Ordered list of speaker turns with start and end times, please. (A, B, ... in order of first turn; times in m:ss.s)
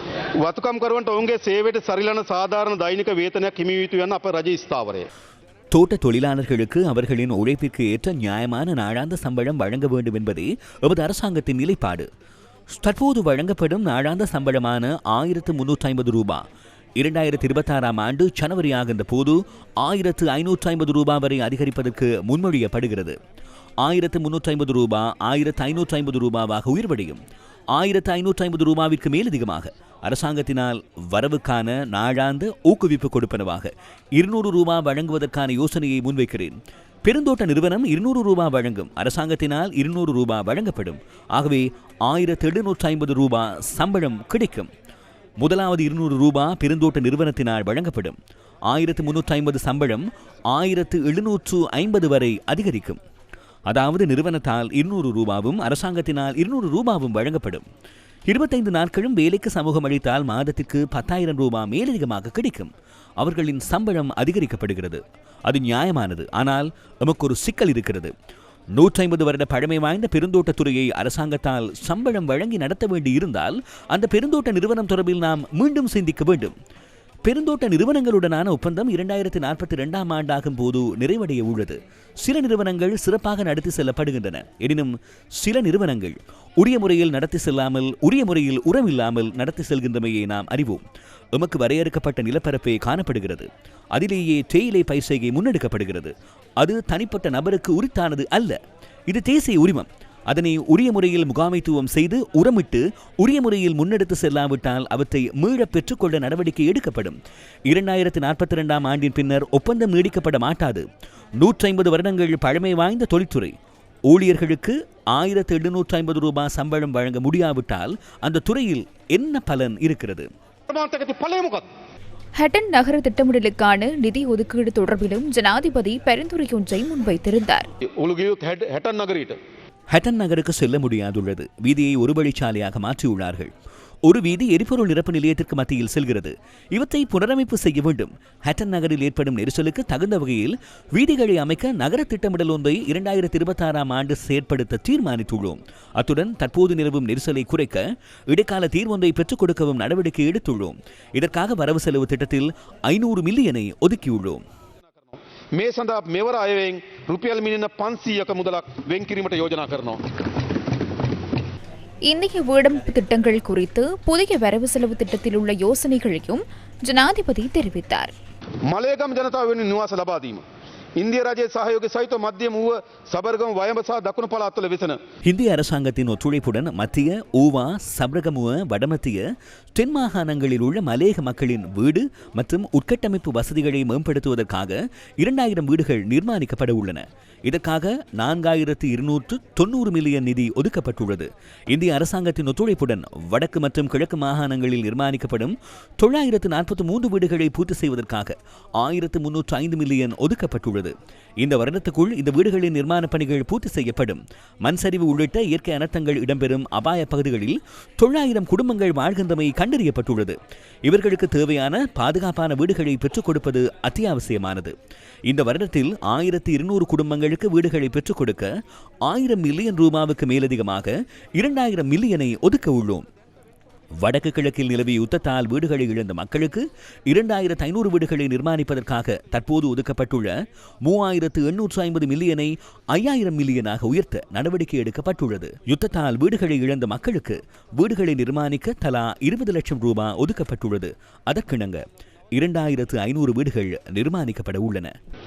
0:00.4-0:05.1 A
0:05.7-0:12.1 B
0:12.7-0:16.4 B
0:17.0-0:23.2 B
0:23.8-0:27.2 B
0:27.7-0:44.7 B
0:45.4-0:48.2 B
0:48.7-0:53.0 B
0:53.7-0:57.6 B
0:58.3-1:08.1 B
1:08.8-1:16.5 B
1:17.2-1:50.8 B
1:51.4-1:53.6 B
1:54.1-2:00.3 B
2:00.7-2:01.7 A
2:02.4-2:07.7 C
2:07.9-2:09.4 A
2:09.9-2:13.5 B
2:14.0-2:34.4 B
2:35.0-2:40.0 A
2:42.1-2:48.1 C
2:48.7-2:50.4 A
2:51.0-2:55.0 A
2:55.2-2:59.2 B
2:59.8-3:34.8 B
3:35.3-3:38.5 B
3:39.1-3:43.1 B
3:44.0-4:01.8 B
4:02.4-4:04.9 B